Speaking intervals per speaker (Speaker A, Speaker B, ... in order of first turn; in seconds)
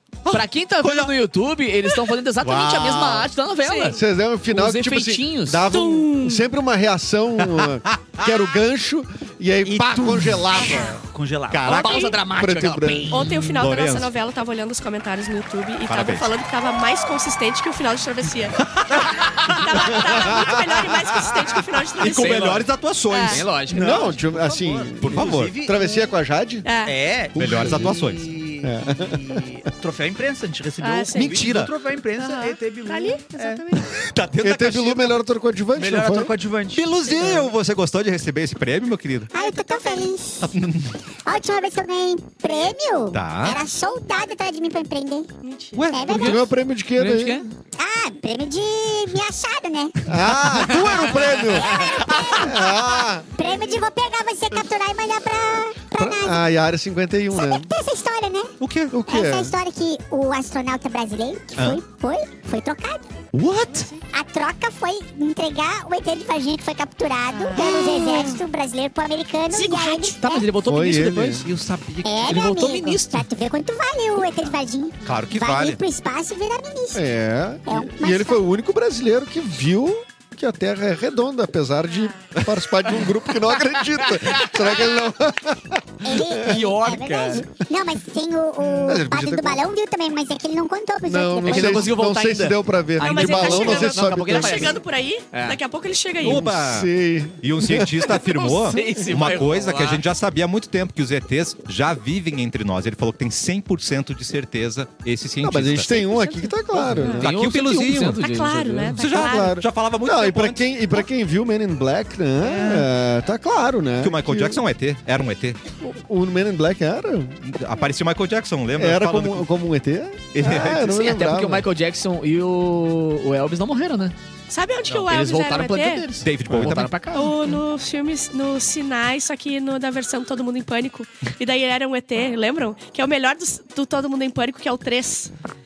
Speaker A: 0.2-1.1, 2.4-3.3, 7.5-8.3, 11.5-12.2, 13.6-14.1, 15.8-16.3, 18.8-23.5, 25.0-25.6, 27.4-28.4, 31.2-31.7, 33.8-35.2, 36.7-39.3, 40.4-41.0, 43.1-43.6, 45.8-46.2, 50.5-51.1, 58.6-59.0, 61.6-61.8, 63.3-63.9, 71.4-72.3, 75.0-75.8, 96.2-96.9, 97.4-106.2, 106.8-108.2, 108.9-111.0, 112.4-112.9, 114.0-115.6, 117.5-119.5, 120.3-120.9, 126.2-127.0
Speaker B: 0.3-5.7, 11.7-13.6, 22.0-22.7, 23.3-24.1, 46.0-46.4, 47.0-47.5, 70.2-71.4, 72.2-73.3, 84.2-84.6, 86.3-87.5, 91.4-94.8, 95.3-95.6, 98.2-100.0, 106.8-109.1, 120.7-124.1, 124.9-127.5
Speaker C: 3.6-4.0, 5.7-6.4, 10.6-11.0, 11.7-12.2, 13.1-22.5, 23.1-23.5, 25.8-26.1, 26.6-27.0, 30.8-31.5, 32.2-34.0, 36.9-37.5, 39.3-40.1, 45.4-45.9, 53.4-53.8, 63.6-64.0, 67.3-68.3, 69.5-70.2, 81.9-82.2, 93.0-96.5, 108.2-109.6, 124.5-126.0, 127.1-135.3
Speaker D: 4.0-11.0, 12.3-13.2, 23.7-26.6, 27.6-28.0, 28.6-29.4, 34.4-36.3, 46.1-47.5, 50.0-53.2, 56.0-57.7, 58.9-59.5, 70.6-71.5, 76.9-86.6, 88.8-89.6, 91.0-94.8, 96.3-99.0, 105.4-107.3, 109.1-114.6, 115.8-117.4, 118.7-121.7
Speaker E: 9.6-12.0, 23.7-25.8, 26.8-33.8, 35.7-36.8, 93.0-93.4
Speaker F: 39.3-40.5, 41.2-45.3, 45.8-46.4, 47.6-50.2, 51.4-56.5, 57.3-58.5, 59.0-63.0, 64.1-70.5, 72.0-77.1, 77.7-78.4, 86.0-92.0